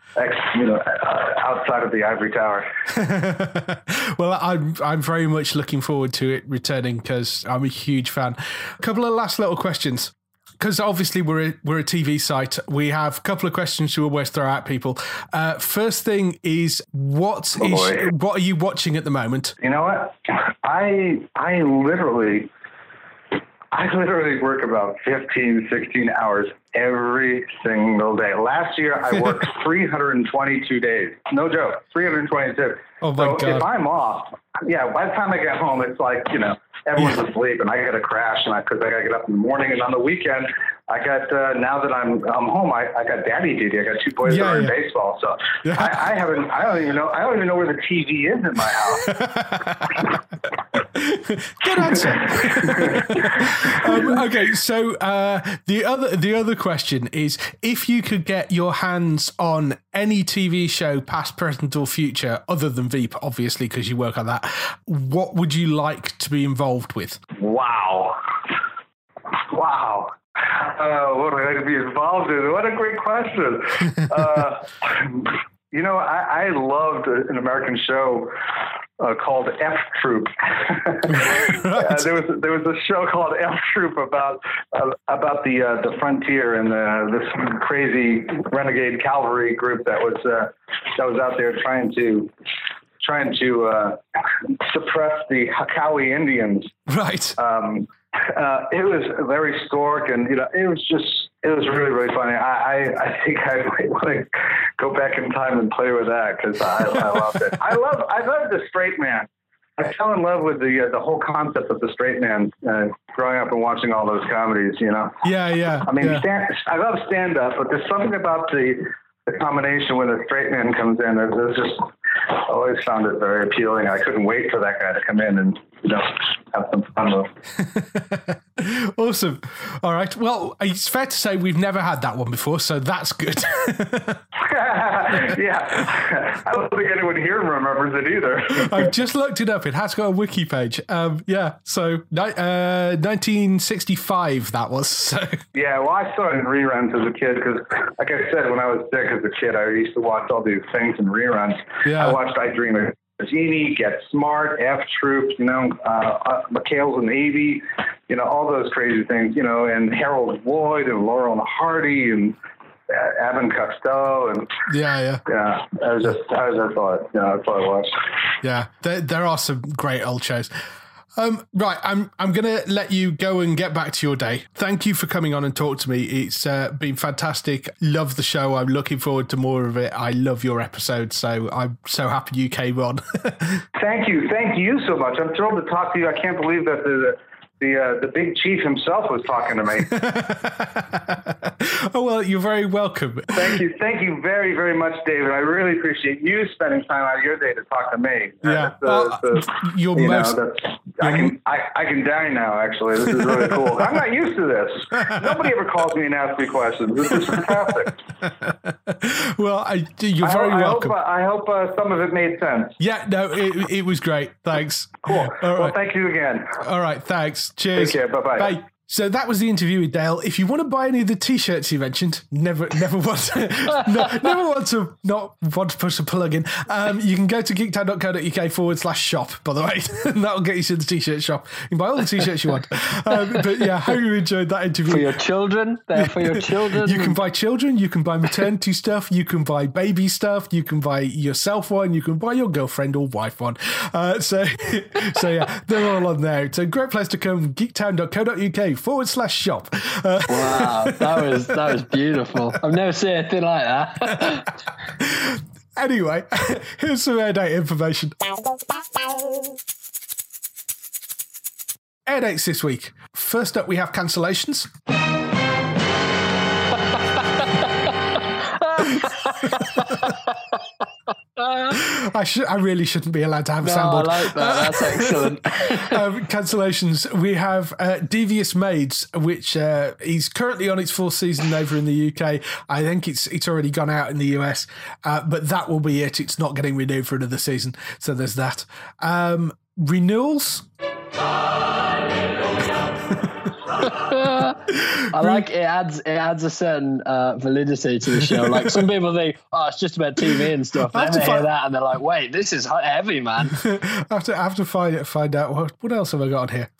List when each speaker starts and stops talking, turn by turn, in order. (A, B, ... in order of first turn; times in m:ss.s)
0:00.2-0:02.7 A
0:02.9-0:19.5 B
0:17.6-0:18.0 A
0:19.6-0:22.5 A
0:23.7-0:49.1 A
0:33.0-0:33.7 B
0:44.2-0:44.7 B
0:45.6-0:46.0 B
0:49.0-0:50.1 B
0:50.9-1:07.2 B
0:52.0-0:54.1 A
1:07.4-1:08.2 A
1:09.3-1:18.3 A
1:19.0-1:32.3 A
1:21.3-1:22.0 B
1:33.0-1:36.7 A
1:36.9-1:37.4 B
1:37.4-1:55.2 A
1:55.2-1:56.2 B
1:55.8-2:07.3 A
2:07.6-2:14.2 B
2:14.4-2:18.9 A
2:18.5-2:25.4 B
2:25.5-2:42.4 A
2:31.8-2:32.2 B
2:42.9-2:44.5 A
2:44.7-2:45.2 B
2:45.2-2:47.9 A
2:48.4-2:50.5 B
2:51.2-3:03.6 B
3:03.8-3:09.9 A
3:09.9-3:13.6 B
3:13.3-3:28.0 A
3:18.4-3:20.4 B
3:21.0-3:21.4 B
3:28.3-3:30.9 B
3:30.2-3:32.7 A
3:32.8-3:35.8 B
3:35.0-3:36.6 A
3:36.6-3:55.1 B
3:37.8-3:38.6 A
3:54.9-3:57.2 C
3:55.9-4:12.6 B
4:10.3-4:14.5 C
4:14.1-4:14.4 B
4:15.0-4:18.2 B
4:22.0-4:24.7 B
4:28.2-4:30.6 C
4:28.8-4:29.1 B
4:31.4-4:31.8 C
4:31.7-4:50.6 B
4:33.6-4:36.0 C
4:53.8-4:54.6 C
4:54.6-4:55.4 B
4:55.1-5:03.6 C
4:58.3-4:58.8 B
5:00.8-5:01.5 B
5:03.5-5:06.7 B